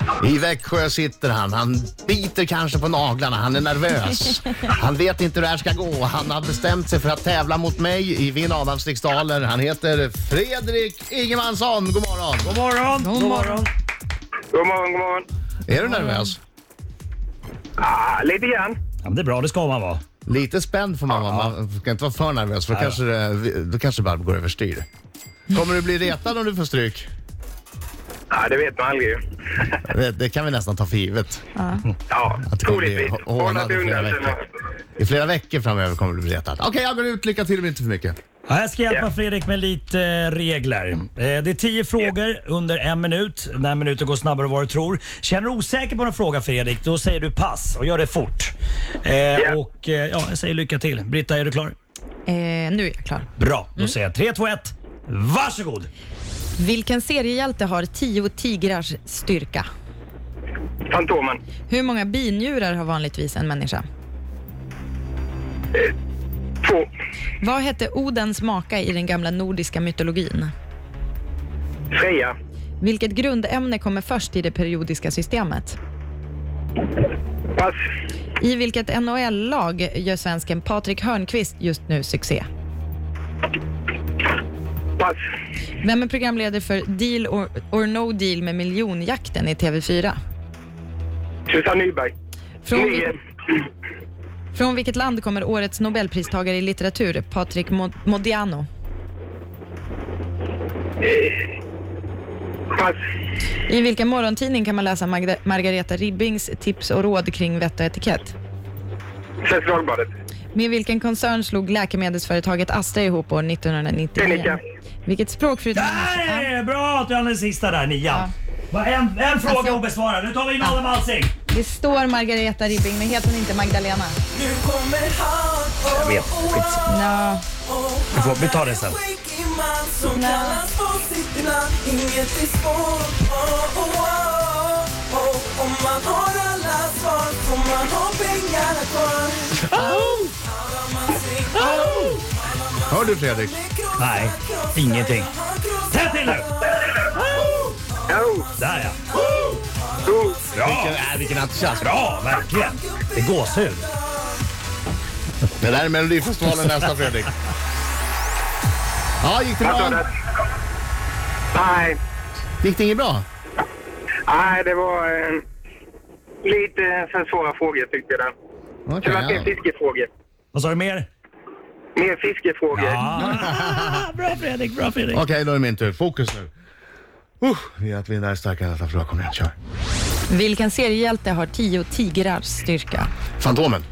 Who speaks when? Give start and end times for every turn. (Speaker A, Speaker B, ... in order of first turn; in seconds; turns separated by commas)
Speaker A: 0.2-12.6, Speaker B: 12.4-13.7, Speaker C: 13.0-13.7, Speaker D: 14.5-15.2, Speaker A: 15.7-16.4, Speaker C: 15.8-16.3, Speaker D: 17.8-18.8, Speaker B: 19.0-20.0, Speaker A: 20.2-24.9, Speaker B: 21.2-21.5, Speaker B: 22.7-23.0, Speaker A: 25.5-27.1, Speaker D: 28.3-29.8, Speaker A: 29.8-31.4, Speaker C: 31.6-31.8, Speaker D: 32.1-34.4, Speaker A: 32.5-34.4, Speaker A: 35.0-38.2, Speaker B: 38.5-48.5, Speaker B: 49.0-51.8, Speaker C: 52.3-53.9, Speaker B: 53.4-55.9, Speaker C: 56.6-59.7, Speaker D: 60.9-61.4, Speaker C: 61.7-63.8, Speaker D: 66.6-66.9, Speaker C: 67.4-70.5, Speaker D: 71.9-72.3, Speaker C: 72.8-75.8, Speaker C: 78.4-82.5, Speaker C: 85.8-90.2, Speaker D: 91.5-92.1, Speaker C: 92.6-93.1, Speaker D: 92.7-93.1, Speaker C: 94.5-98.7, Speaker D: 101.0-101.5, Speaker D: 102.7-103.0, Speaker C: 103.7-108.4, Speaker D: 109.4-110.1, Speaker C: 110.5-116.5, Speaker D: 114.2-114.6, Speaker B: 115.7-121.3, Speaker C: 119.5-119.8, Speaker C: 121.5-124.2, Speaker E: 124.3-126.9, Speaker B: 125.9-126.8, Speaker C: 126.9-127.5, Speaker E: 127.7-139.7, Speaker B: 128.1-129.0, Speaker C: 130.1-130.6, Speaker B: 139.7-140.2, Speaker A: 139.7-140.2, Speaker E: 140.4-142.7, Speaker B: 141.6-142.1, Speaker A: 141.7-142.2, Speaker A: 142.9-143.6, Speaker E: 143.5-146.8, Speaker B: 144.0-145.3, Speaker B: 145.9-147.6, Speaker E: 147.3-148.2, Speaker D: 148.1-148.5, Speaker B: 148.6-149.0, Speaker E: 149.1-149.9, Speaker D: 150.0-150.4, Speaker B: 150.6-151.0, Speaker A: 150.6-152.0, Speaker B: 151.8-153.8, Speaker E: 154.0-154.3, Speaker A: 155.6-157.3, Speaker A: 159.2-160.0, Speaker D: 159.6-160.1, Speaker D: 161.5-162.0, Speaker A: 162.6-163.2, Speaker D: 164.3-165.4, Speaker D: 166.4-168.3, Speaker A: 168.9-169.5, Speaker D: 169.0-170.1, Speaker B: 170.5-171.1, Speaker D: 171.9-173.1, Speaker B: 172.7-175.2, Speaker A: 175.1-176.5, Speaker A: 177.4-179.5, Speaker C: 180.3-183.1, Speaker A: 183.4-183.8